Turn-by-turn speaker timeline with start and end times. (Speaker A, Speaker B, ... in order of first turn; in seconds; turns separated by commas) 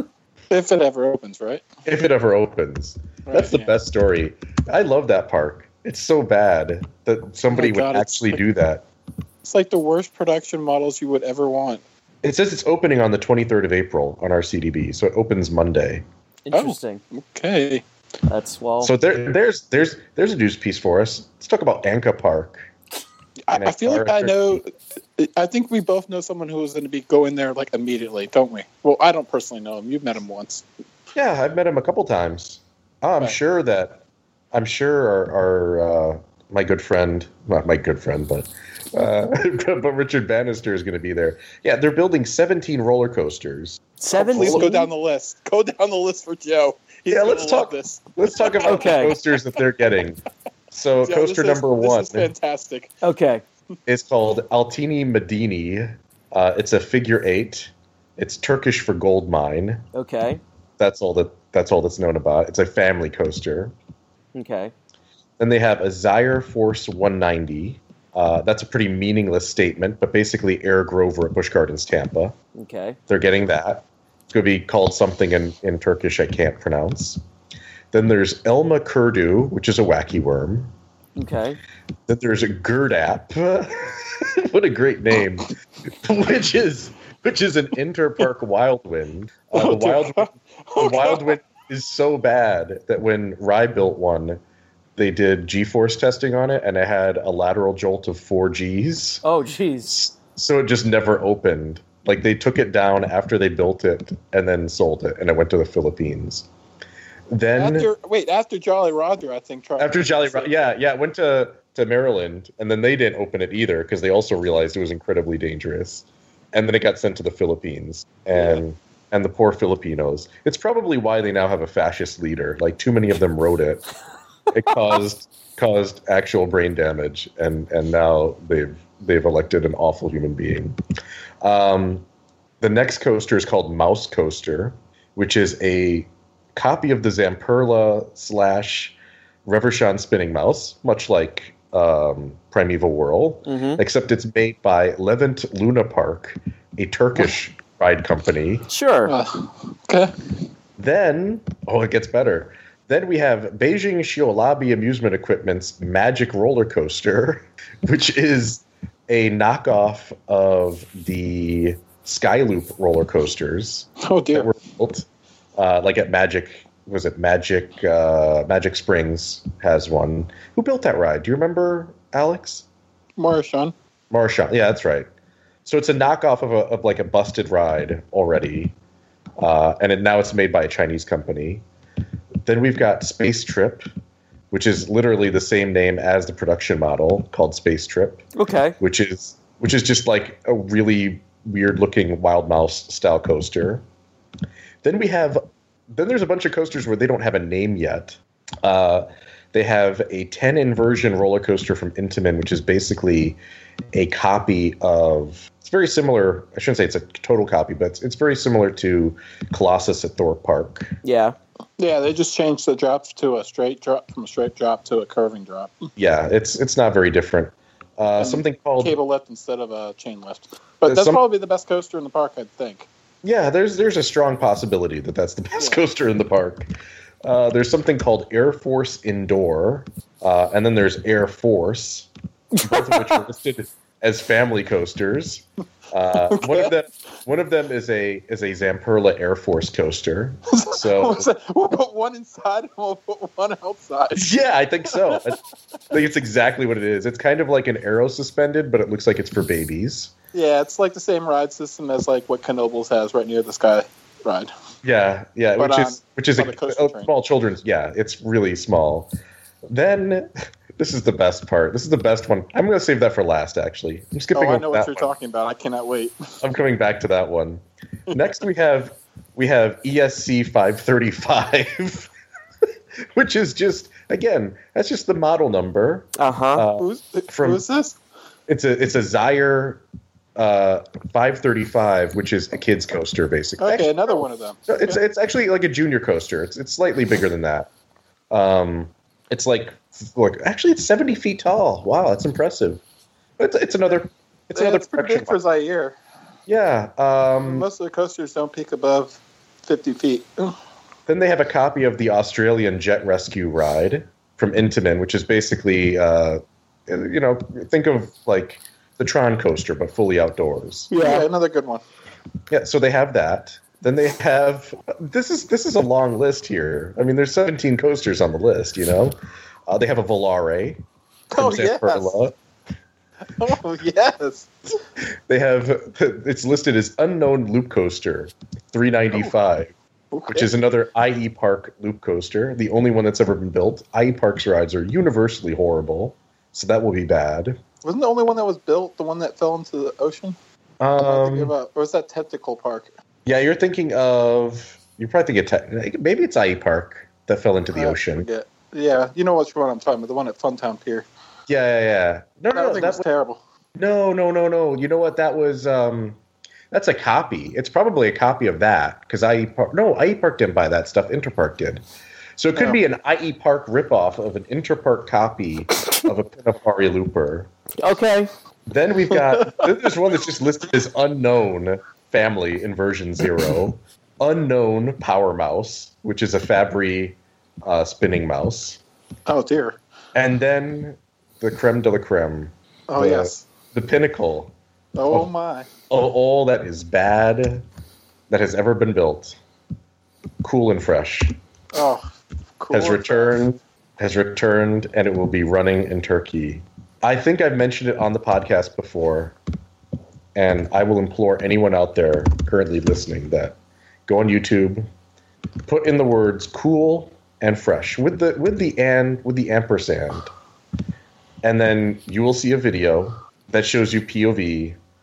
Speaker A: 0.5-1.6, Speaker B: 1.9-8.8, Speaker A: 3.3-3.7, Speaker A: 7.5-8.4, Speaker A: 9.4-11.8, Speaker B: 12.2-16.0, Speaker C: 16.5-17.0, Speaker A: 16.5-17.8, Speaker C: 18.3-18.9, Speaker B: 18.8-22.7, Speaker A: 23.5-30.6, Speaker B: 23.5-24.6, Speaker B: 31.1-44.9, Speaker C: 44.0-44.7, Speaker A: 44.1-49.0, Speaker B: 47.1-50.2, Speaker C: 48.7-49.1, Speaker B: 50.7-52.3, Speaker A: 51.0-52.9, Speaker C: 53.0-53.4, Speaker B: 53.9-59.8, Speaker C: 59.9-60.4, Speaker B: 60.8-63.7, Speaker C: 64.3-64.7, Speaker B: 65.4-72.3, Speaker C: 72.5-73.0, Speaker B: 73.1-77.2, Speaker B: 77.9-80.7, Speaker C: 81.2-81.6, Speaker B: 82.1-94.4, Speaker A: 89.5-91.4, Speaker B: 95.0-99.2, Speaker C: 99.2-99.9, Speaker B: 99.9-106.5, Speaker B: 107.3-107.9, Speaker A: 107.6-110.7, Speaker B: 109.8-123.8, Speaker B: 124.5-130.8, Speaker B: 131.4-132.1, Speaker B: 132.6-148.7, Speaker C: 143.5-143.8, Speaker C: 148.7-149.1, Speaker A: 149.1-150.1, Speaker B: 150.8-172.7, Speaker A: 164.0-164.5, Speaker A: 173.2-173.7, Speaker B: 174.1-175.1, Speaker B: 175.7-178.7, Speaker B: 179.4-181.6, Speaker B: 182.4-183.9, Speaker B: 184.5-188.2, Speaker C: 188.3-188.8, Speaker B: 188.8-193.8, Speaker B: 194.8-203.4, Speaker B: 203.9-211.0, Speaker C: 211.0-211.4, Speaker A: 211.8-215.9, Speaker B: 216.0-219.0, Speaker A: 218.2-222.9, Speaker B: 220.8-221.2, Speaker B: 223.2-226.7, Speaker A: 225.6-225.8, Speaker B: 227.2-232.1, Speaker A: 232.6-233.2, Speaker B: 232.6-241.3, Speaker A: 236.3-236.7, Speaker A: 240.5-244.3, Speaker B: 244.1-245.4, Speaker A: 244.9-245.3, Speaker B: 245.9-250.1, Speaker A: 250.3-254.5, Speaker B: 254.8-259.1, Speaker A: 255.6-257.1, Speaker B: 259.7-265.1, Speaker A: 264.4-266.1, Speaker B: 266.4-272.1, Speaker B: 273.1-277.6, Speaker C: 276.2-276.6, Speaker A: 276.8-278.0, Speaker B: 278.5-279.8, Speaker B: 280.4-287.7, Speaker A: 283.6-285.0, Speaker B: 288.3-292.8, Speaker B: 293.4-295.4, Speaker A: 294.6-296.0, Speaker B: 296.5-297.7, Speaker A: 297.4-300.6, Speaker B: 301.1-311.1, Speaker C: 310.9-311.2, Speaker A: 311.0-311.8, Speaker B: 312.5-319.2, Speaker B: 319.7-320.8, Speaker A: 321.3-322.2, Speaker B: 321.4-322.4, Speaker A: 323.4-324.5, Speaker B: 325.3-329.7, Speaker A: 330.1-330.5, Speaker B: 330.3-337.6, Speaker A: 337.8-340.4, Speaker B: 340.8-341.5, Speaker A: 341.1-342.9, Speaker B: 343.3-348.3, Speaker A: 347.7-351.1, Speaker B: 351.5-353.1, Speaker A: 352.5-353.4, Speaker B: 353.8-356.2, Speaker B: 356.7-361.8, Speaker B: 362.4-367.5, Speaker C: 367.8-368.3, Speaker B: 368.7-378.8, Speaker A: 369.1-369.7, Speaker A: 379.3-379.8, Speaker B: 380.1-384.5, Speaker A: 382.9-383.5, Speaker A: 384.9-385.7, Speaker B: 385.9-387.6, Speaker B: 388.3-389.4, Speaker B: 390.4-391.4, Speaker A: 391.7-392.1, Speaker A: 392.6-393.4, Speaker B: 392.7-399.4, Speaker B: 400.4-403.6, Speaker B: 404.1-404.9, Speaker B: 405.7-410.3, Speaker B: 411.4-414.8